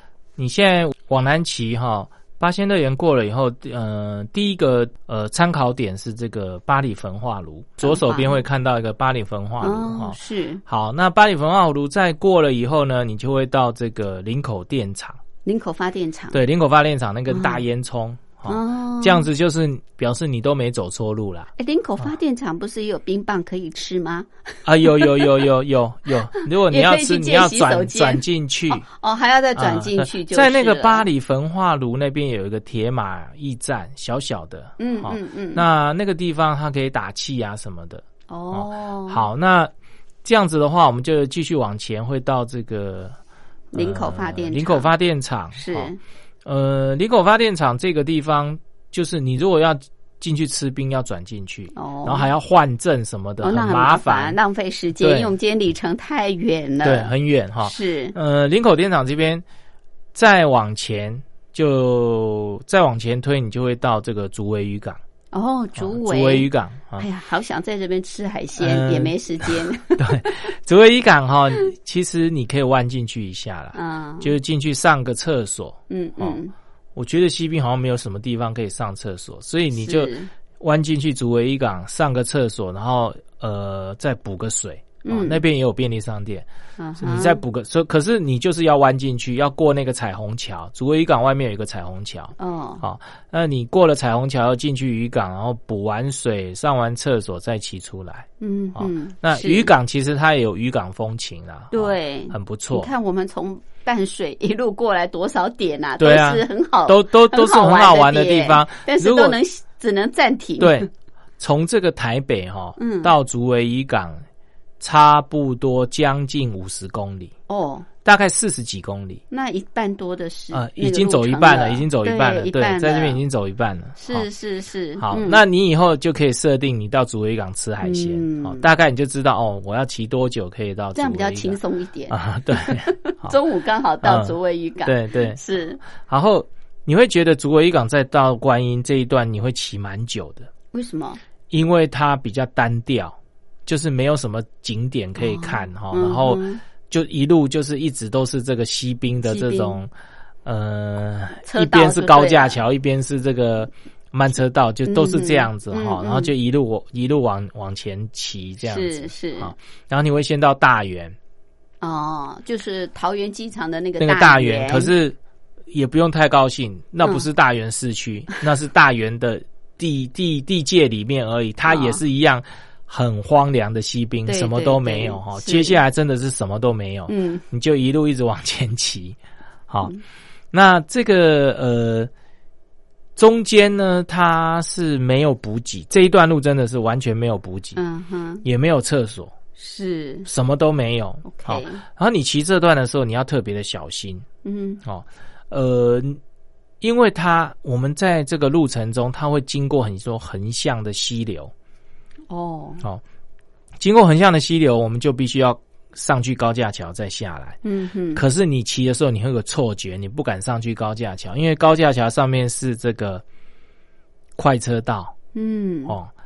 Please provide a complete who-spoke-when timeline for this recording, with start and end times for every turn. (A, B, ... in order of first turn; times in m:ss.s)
0:00.4-0:15.2 A
0:07.8-0:08.4 B
0:09.6-0:10.6 B
0:15.4-0:16.4 B
0:16.3-0:21.5 A
0:17.3-0:17.6 B
0:18.5-0:19.3 B
0:21.6-0:24.3 B
0:24.6-0:28.8 A
0:24.8-0:25.4 B
0:26.4-0:31.1 B
0:29.6-0:39.7 A
0:34.8-0:35.6 B
0:38.3-0:39.2 B
0:40.2-0:43.2 A
0:43.7-0:44.9 B
0:43.8-0:45.9 A
0:45.6-0:46.0 B
0:46.4-0:54.4 A
0:51.8-0:52.3 B
0:53.4-0:57.1 B
0:55.0-0:55.3 A
0:56.8-0:59.4 A
0:57.6-0:58.2 B
1:00.1-1:05.0 A
1:05.3-1:10.5 B
1:05.8-1:07.1 A
1:08.6-1:16.4 A
1:13.7-1:14.3 B
1:15.9-1:16.5 B
1:17.0-1:26.5 A
1:19.7-1:20.3 B
1:25.1-1:25.4 B
1:26.8-1:27.4 B
1:27.0-1:42.9 A
1:32.4-1:32.8 B
1:38.4-1:39.7 B
1:41.7-1:50.9 B
1:46.0-1:49.4 A
1:50.6-1:50.9 A
1:51.4-1:54.2 A
1:52.8-1:53.1 B
1:54.8-1:57.3 A
1:57.5-1:57.9 B
1:58.0-1:59.2 A
1:59.3-2:03.2 B
2:00.5-2:04.3 A
2:04.0-2:05.4 B
2:05.0-2:11.6 A
2:07.8-2:08.7 B
2:11.0-2:15.8 B
2:12.1-2:13.4 A
2:14.0-2:15.4 A
2:16.0-2:20.5 A
2:20.7-2:21.2 B
2:21.5-2:29.9 A
2:25.2-2:26.6 B
2:29.2-2:29.8 B
2:30.4-2:41.2 A
2:31.5-2:32.6 B
2:34.8-2:36.3 B
2:38.6-2:39.5 B
2:41.8-2:44.9 B
2:44.0-2:45.2 A
2:45.7-2:59.2 A
2:51.7-2:52.0 B
2:54.3-2:55.8 B
2:57.1-2:57.4 B
3:00.5-3:02.1 A
3:03.2-3:07.8 A
3:07.8-3:08.4 B
3:08.4-3:09.3 A
3:09.6-3:10.3 B
3:10.3-3:14.3 A
3:11.2-3:11.8 B
3:14.4-3:14.8 B
3:14.8-3:16.2 A
3:16.8-3:21.5 A
3:22.3-3:22.8 B
3:23.8-3:27.6 A
3:27.6-3:28.2 B
3:28.2-3:33.2 A
3:34.4-3:35.2 A
3:35.3-3:36.0 B